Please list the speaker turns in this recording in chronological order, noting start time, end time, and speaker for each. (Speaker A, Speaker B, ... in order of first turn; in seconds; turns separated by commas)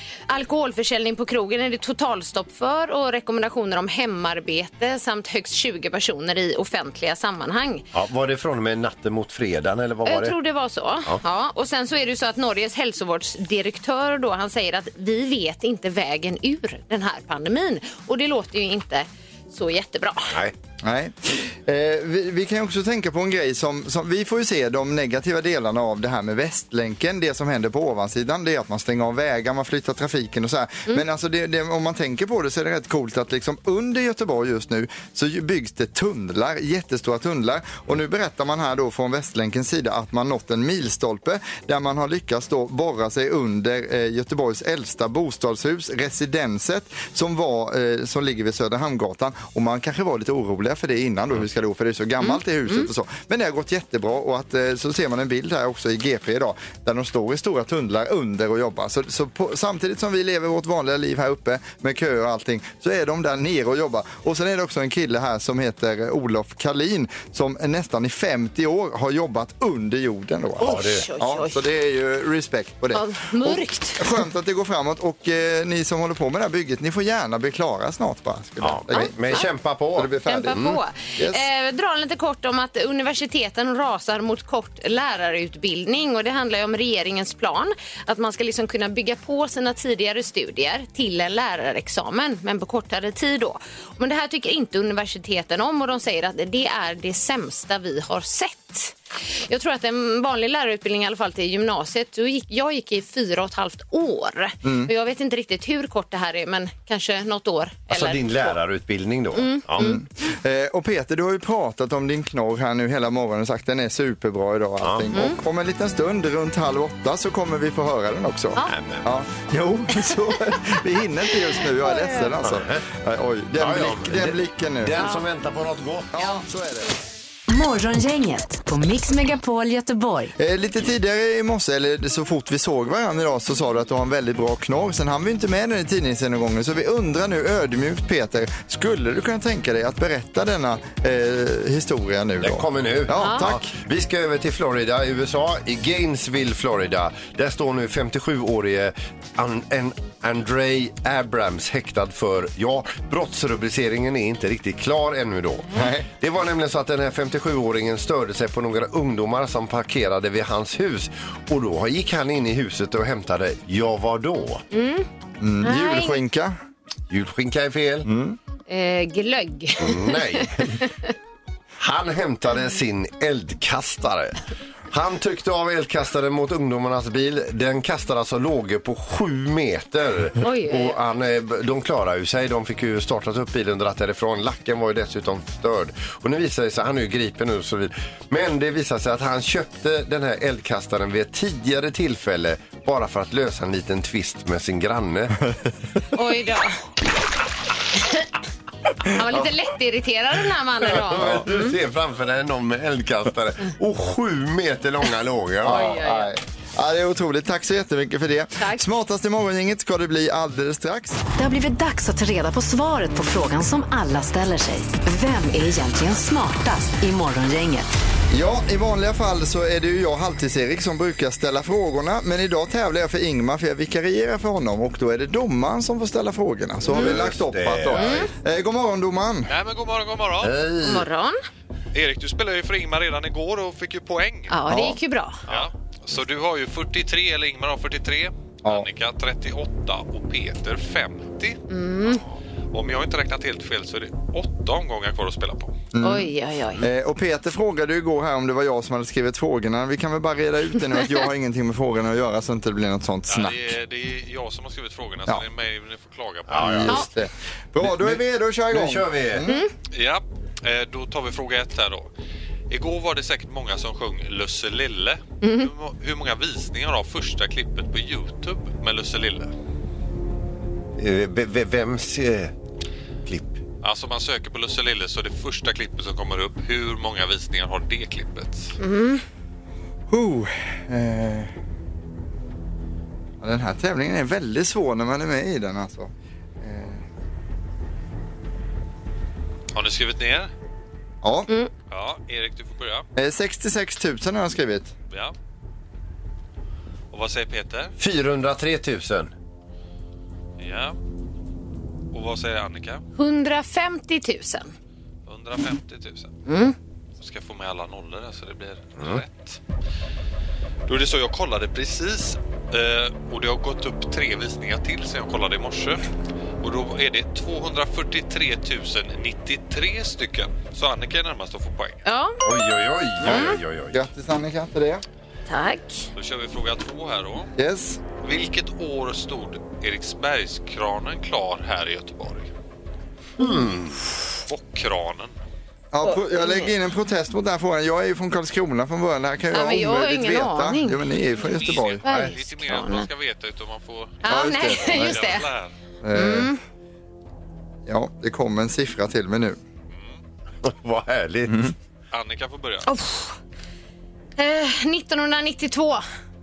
Speaker A: 0.3-7.9, Speaker B: 7.9-10.4, Speaker A: 10.1-20.4, Speaker B: 20.3-20.6, Speaker C: 20.8-79.4, Speaker A: 52.2-52.9, Speaker A: 70.6-71.6, Speaker B: 70.6-71.1, Speaker A: 72.9-74.2, Speaker B: 78.6-80.8, Speaker A: 78.9-79.5, Speaker C: 80.0-81.5, Speaker A: 80.2-108.6, Speaker C: 104.6-104.9, Speaker B: 107.9-109.9, Speaker A: 109.3-110.0, Speaker C: 109.8-125.0, Speaker B: 114.8-115.1, Speaker A: 115.1-115.4, Speaker B: 118.7-119.1, Speaker A: 121.8-122.3, Speaker B: 122.4-122.8, Speaker B: 123.6-126.1, Speaker C: 126.1-126.9, Speaker D: 127.5-130.3, Speaker C: 130.4-143.7, Speaker B: 142.4-164.6, Speaker A: 143.2-143.5, Speaker C: 155.8-156.1, Speaker A: 164.7-165.1, Speaker C: 165.4-166.6, Speaker A: 165.6-166.2, Speaker B: 167.1-168.1, Speaker C: 168.0-168.4, Speaker A: 168.7-171.1, Speaker B: 169.8-170.8, Speaker B: 171.8-195.4, Speaker A: 180.4-181.0, Speaker A: 196.1-196.8, Speaker A: 198.0-198.3, Speaker A: 199.1-201.8, Speaker C: 199.2-199.5, Speaker B: 200.8-205.9, Speaker C: 205.6-211.2, Speaker A: 205.7-206.3, Speaker A: 208.6-208.8, Speaker D: 211.4-217.9, Speaker C: 218.3-229.5, Speaker B: 226.9-228.3, Speaker A: 227.9-228.3, Speaker E: 229.5-230.6, Speaker B: 230.4-231.1, Speaker A: 230.8-231.4, Speaker E: 231.9-234.6, Speaker A: 234.5-235.4, Speaker C: 234.7-235.0, Speaker E: 235.5-242.2, Speaker A: 241.7-242.2, Speaker E: 242.7-245.8, Speaker C: 245.9-253.8, Speaker A: 246.0-246.8, Speaker E: 253.3-257.0, Speaker B: 256.5-257.1, Speaker C: 256.6-259.6, Speaker B: 257.8-259.5, Speaker A: 259.5-259.7, Speaker E: 259.9-262.1, Speaker E: 262.7-269.5, Speaker A: 265.4-265.7, Speaker B: 271.0-272.5, Speaker B: 273.3-273.6, Speaker E: 273.8-278.7, Speaker A: 278.8-279.2, Speaker C: 280.1-281.5, Speaker C: 283.4-287.0, Speaker E: 289.7-290.5, Speaker C: 291.2-291.5, Speaker E: 291.9-293.1, Speaker C: 293.2-294.9, Speaker E: 297.1-297.9, Speaker B: 298.0-299.3, Speaker E: 300.6-301.0, Speaker E: 302.1-303.0, Speaker A: 303.2-304.7, Speaker E: 305.3-306.3, Speaker A: 306.5-306.8, Speaker E: 307.2-309.6, Speaker E: 310.9-316.1, Speaker E: 316.6-322.0, Speaker A: 322.1-322.5, Speaker B: 322.4-324.0, Speaker A: 323.2-323.6, Speaker C: 323.2-325.0, Speaker A: 325.5-326.1, Speaker E: 326.1-327.5, Speaker C: 327.6-328.0, Speaker E: 328.2-332.5, Speaker B: 333.4-334.2, Speaker E: 334.5-335.3, Speaker C: 335.9-342.1, Speaker A: 336.0-336.7, Speaker A: 339.5-341.0, Speaker E: 341.4-345.7, Speaker A: 342.0-343.1, Speaker A: 344.2-345.5, Speaker C: 344.3-345.4, Speaker C: 346.0-346.5, Speaker A: 346.1-346.6, Speaker C: 347.9-349.6, Speaker E: 349.9-350.2, Speaker B: 350.6-351.7, Speaker C: 351.5-351.7, Speaker E: 352.1-352.9, Speaker A: 352.9-353.4, Speaker A: 354.4-356.0